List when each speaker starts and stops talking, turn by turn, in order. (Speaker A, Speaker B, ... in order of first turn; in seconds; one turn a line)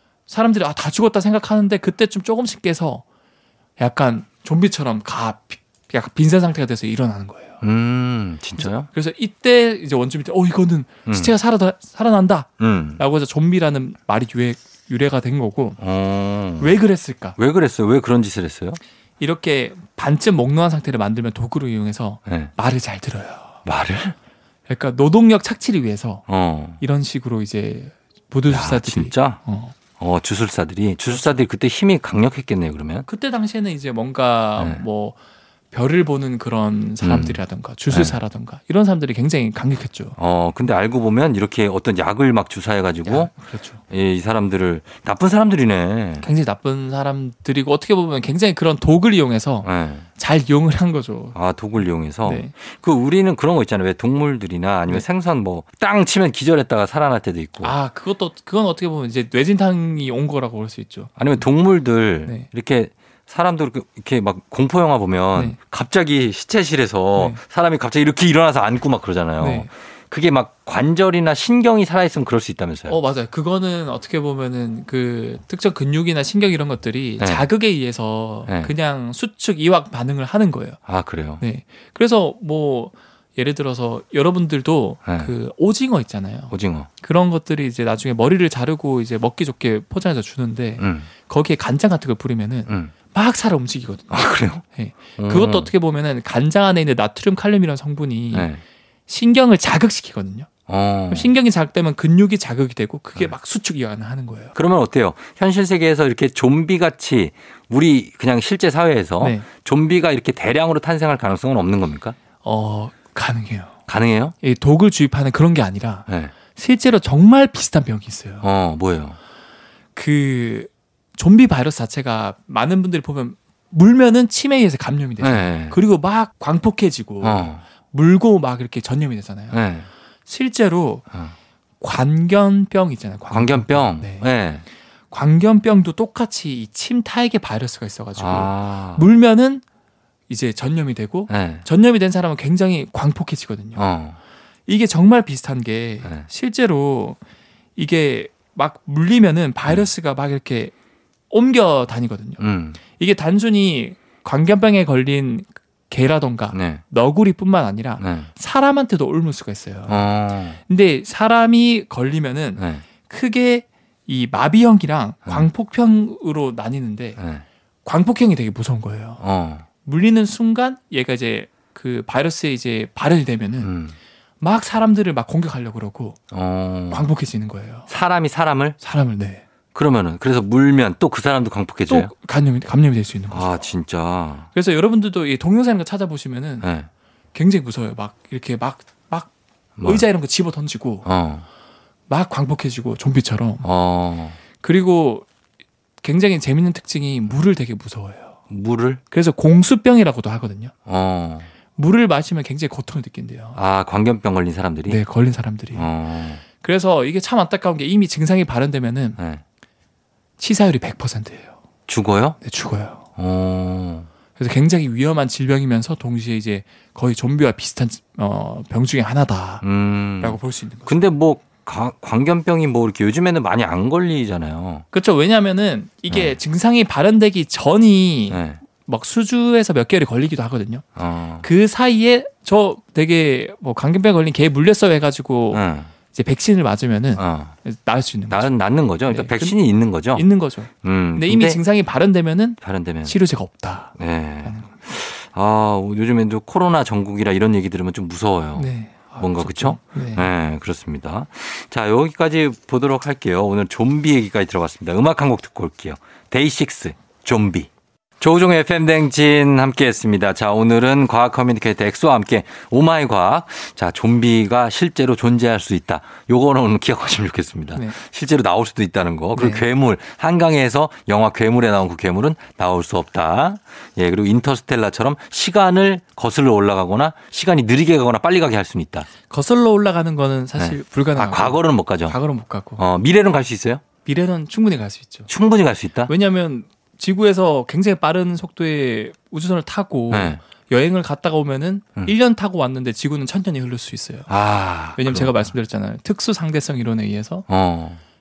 Speaker A: 0.3-3.0
Speaker A: 3.8-7.6
Speaker B: 7.6-8.9
Speaker A: 8.6-15.8
Speaker B: 11.1-11.3
Speaker B: 12.6-13.0
Speaker B: 15.8-16.8
Speaker A: 16.6-17.4
Speaker B: 17.4-18.8
Speaker A: 19.2-23.6
Speaker B: 22.2-22.5
Speaker B: 23.6-24.1
Speaker A: 24.7-26.2
Speaker B: 26.3-26.8
Speaker A: 26.8-29.7
Speaker B: 28.5-29.4
Speaker B: 30.0-33.1
Speaker A: 33.1-35.2
Speaker B: 34.6-34.8
Speaker A: 35.7-40.1
Speaker B: 37.0-37.4
Speaker B: 37.9-38.1
Speaker B: 40.2-43.3
Speaker A: 43.0-43.8
Speaker B: 43.9-46.2
Speaker A: 46.2-51.4
Speaker B: 49.6-50.1
Speaker B: 51.3-57.7
Speaker A: 52.2-52.5
Speaker A: 57.6-61.2
Speaker B: 61.2-73.0
Speaker A: 69.4-69.7
Speaker A: 72.9-80.8
Speaker B: 77.2-77.5
Speaker B: 78.5-78.7
Speaker B: 80.9-81.4
Speaker A: 81.4-98.5
Speaker B: 85.0-85.3
Speaker B: 86.5-86.9
Speaker B: 90.8-91.1
Speaker B: 94.1-94.6
Speaker B: 95.2-95.7
Speaker B: 98.3-98.6
Speaker A: 99.1-100.5
Speaker B: 100.7-101.3
Speaker A: 101.1-104.5
Speaker B: 104.5-112.2
Speaker A: 109.2-109.5
Speaker A: 112.4-113.8
Speaker B: 113.9-114.3
Speaker A: 114.4-118.5
Speaker B: 116.1-116.3
Speaker B: 118.4-119.2
Speaker A: 120.0-129.6
Speaker B: 125.2-125.8
Speaker B: 127.2-127.6
Speaker B: 129.5-129.9
Speaker A: 130.3-131.0
Speaker A: 131.8-134.3
Speaker B: 133.3-134.6
Speaker A: 135.1-139.6
Speaker B: 138.2-139.1
Speaker A: 140.3-143.8
Speaker B: 141.3-141.7
Speaker B: 143.8-144.2
Speaker A: 144.7-147.2
Speaker A: 147.8-150.7
Speaker A: 151.3-160.0
Speaker B: 152.4-152.8
Speaker B: 156.5-156.8
Speaker B: 158.0-158.3
Speaker B: 159.9-160.6
Speaker A: 160.7-167.2
Speaker B: 162.6-162.8
Speaker B: 167.2-167.4
Speaker A: 167.8-169.2
Speaker B: 169.2-169.7
Speaker A: 169.8-173.7
Speaker B: 173.6-173.9
Speaker A: 174.4-176.2
Speaker B: 176.3-177.1
Speaker A: 176.9-177.9
Speaker B: 177.9-178.8
Speaker A: 178.8-179.4
Speaker B: 179.7-182.1
Speaker A: 181.9-183.6
Speaker B: 183.3-184.5
Speaker A: 184.5-186.7
Speaker B: 186.6-186.9
Speaker A: 187.3-189.3
Speaker B: 189.8-190.1
Speaker A: 189.8-191.1
Speaker B: 191.0-191.4
Speaker A: 192.1-193.7
Speaker B: 193.6-194.4
Speaker A: 194.6-195.2
Speaker A: 196.0-198.4
Speaker B: 198.5-199.0
Speaker A: 199.1-200.7
Speaker B: 200.9-201.5
Speaker A: 201.8-203.6
Speaker B: 203.6-205.0
Speaker A: 204.9-205.9
Speaker B: 205.7-206.4
Speaker A: 206.5-209.2
Speaker B: 209.2-209.4
Speaker A: 210.4-211.5
Speaker B: 211.9-212.4
Speaker A: 212.4-213.0
Speaker B: 213.2-214.1
Speaker A: 214.3-219.6
Speaker B: 219.6-224.8
Speaker A: 220.2-221.0
Speaker A: 224.9-230.8
Speaker B: 226.1-226.4
Speaker B: 228.3-228.6
Speaker B: 230.9-231.4
Speaker A: 231.4-238.5
Speaker B: 235.5-235.9
Speaker B: 237.2-237.5
Speaker B: 238.3-240.2
Speaker A: 239.1-239.6
Speaker A: 240.1-244.7
Speaker B: 240.8-241.6
Speaker B: 242.6-243.1
Speaker B: 244.0-257.7
Speaker A: 248.6-250.3
Speaker B: 258.2-279.1
Speaker A: 269.3-269.6
Speaker A: 279.3-282.8
Speaker B: 280.6-282.2
Speaker B: 282.8-283.8
Speaker A: 284.0-285.3
Speaker B: 285.3-286.1
Speaker A: 286.1-294.3
Speaker B: 290.1-290.4
Speaker B: 294.3-295.5
Speaker A: 294.9-297.5
Speaker B: 297.5-298.0